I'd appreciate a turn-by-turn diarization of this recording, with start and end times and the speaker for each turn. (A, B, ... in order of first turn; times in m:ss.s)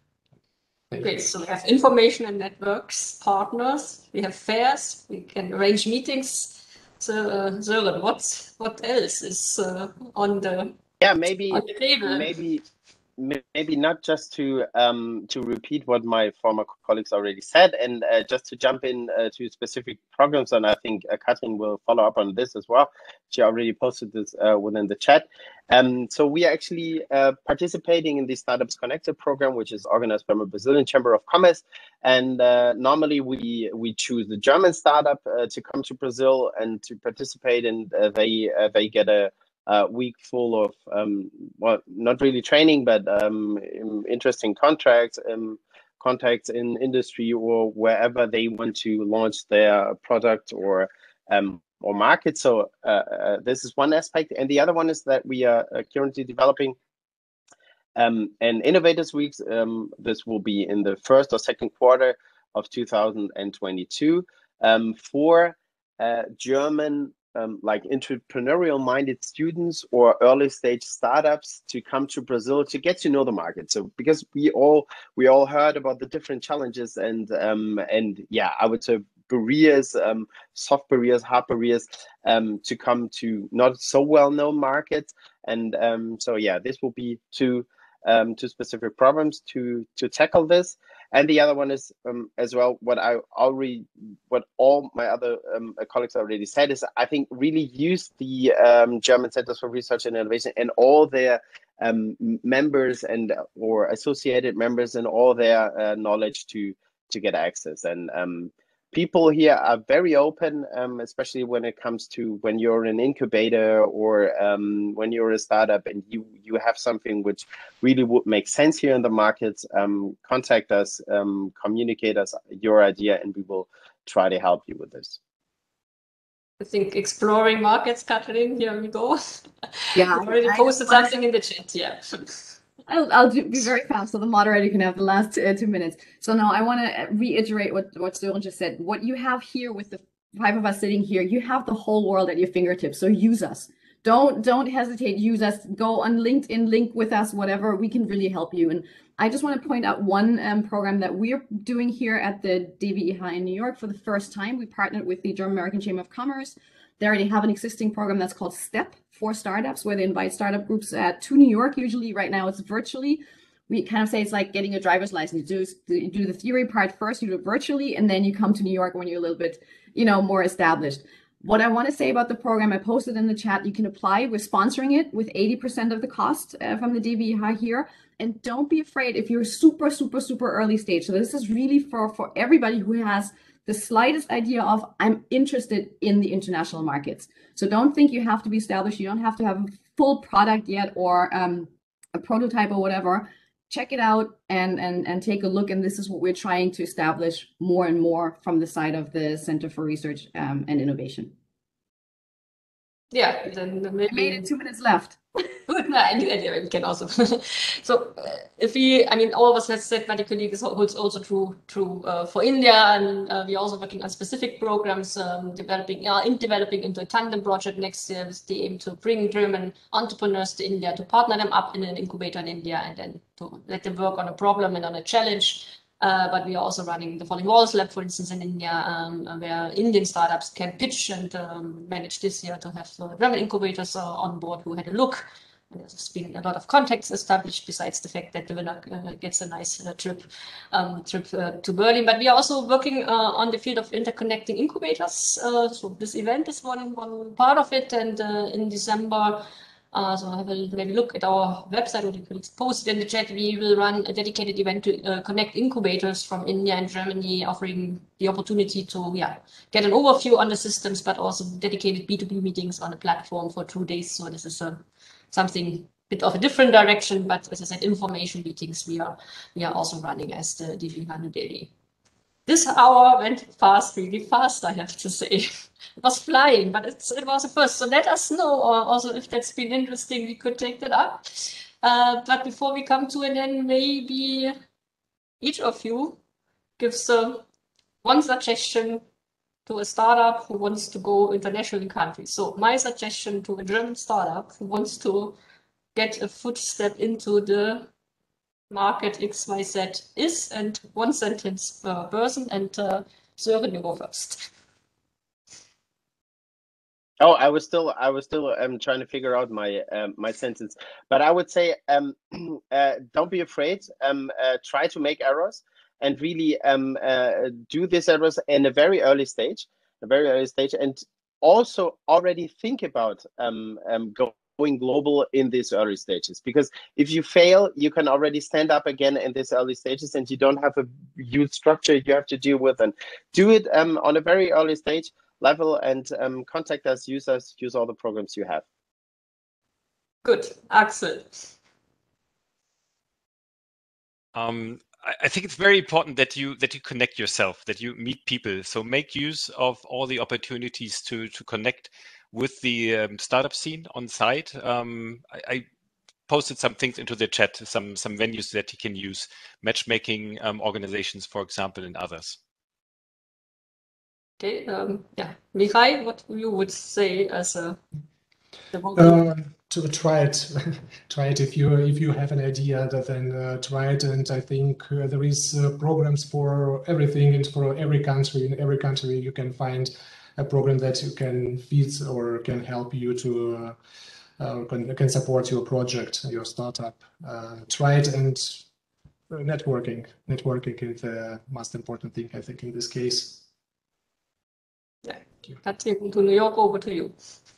0:00.9-0:01.2 A
0:01.0-0:10.8 B
0:11.0-0:12.6 C
0:11.5-0:12.3 B
0:13.2-0:56.8 C
0:58.0-2:05.2 C
2:06.6-2:12.5 B
2:09.9-2:11.2 D
2:12.9-3:21.3 D
3:23.1-3:24.5 B
3:24.1-3:25.2 D
3:25.6-4:31.7 B
4:32.5-4:44.5 B
4:45.4-4:46.2 B
4:46.8-4:47.4 B
4:48.0-4:49.0 B
4:49.7-4:55.4 B
4:56.0-4:57.9 B
4:58.7-5:04.5 B
5:07.2-5:38.6 C
5:40.2-5:41.5 B
5:44.4-5:55.6 E
5:56.3-6:02.4 E
6:04.4-6:07.8 B
6:08.7-6:09.2 B
6:09.0-6:23.8 A
6:24.4-6:28.6 A
6:29.3-6:33.4 A
6:35.0-6:37.2 B